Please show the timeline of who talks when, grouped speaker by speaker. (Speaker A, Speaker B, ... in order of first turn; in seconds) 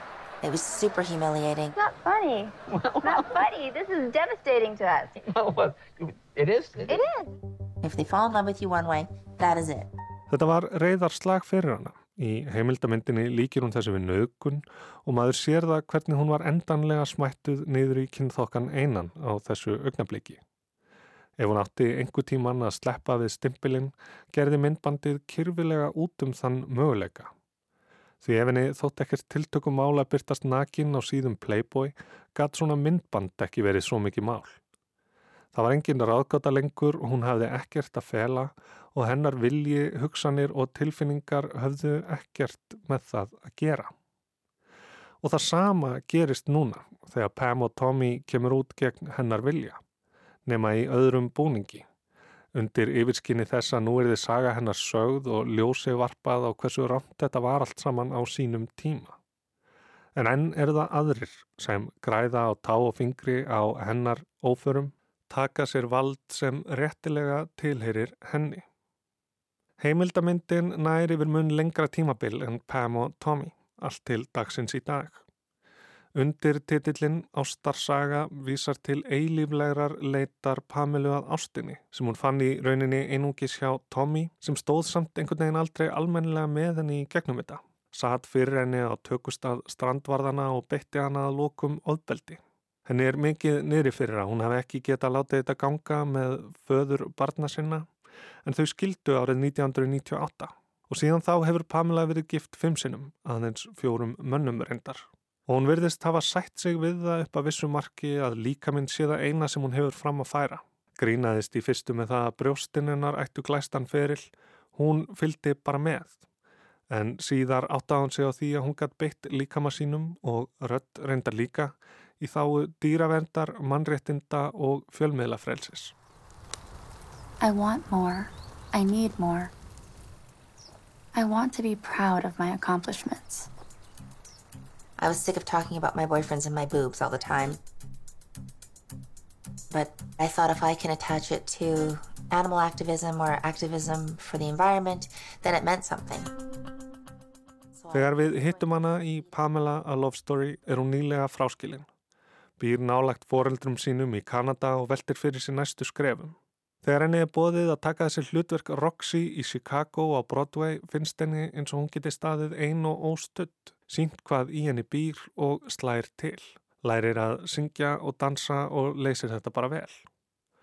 Speaker A: 0.4-1.8, 7.8-9.9, 135.0-137.6, 139.7-146.3, 147.8-149.3
Speaker B: 1.8-5.2, 6.9-7.3
Speaker C: 2.7-3.5, 5.2-7.1
Speaker D: 10.3-20.4, 21.4-27.3, 28.2-34.6, 35.5-43.9, 45.2-49.8, 50.5-51.8, 52.5-59.2, 60.1-68.6, 69.8-75.2, 76.2-97.9, 98.5-116.2, 116.9-125.9, 147.9-151.9, 152.6-170.1
Speaker E: 127.4-129.5, 131.2-133.5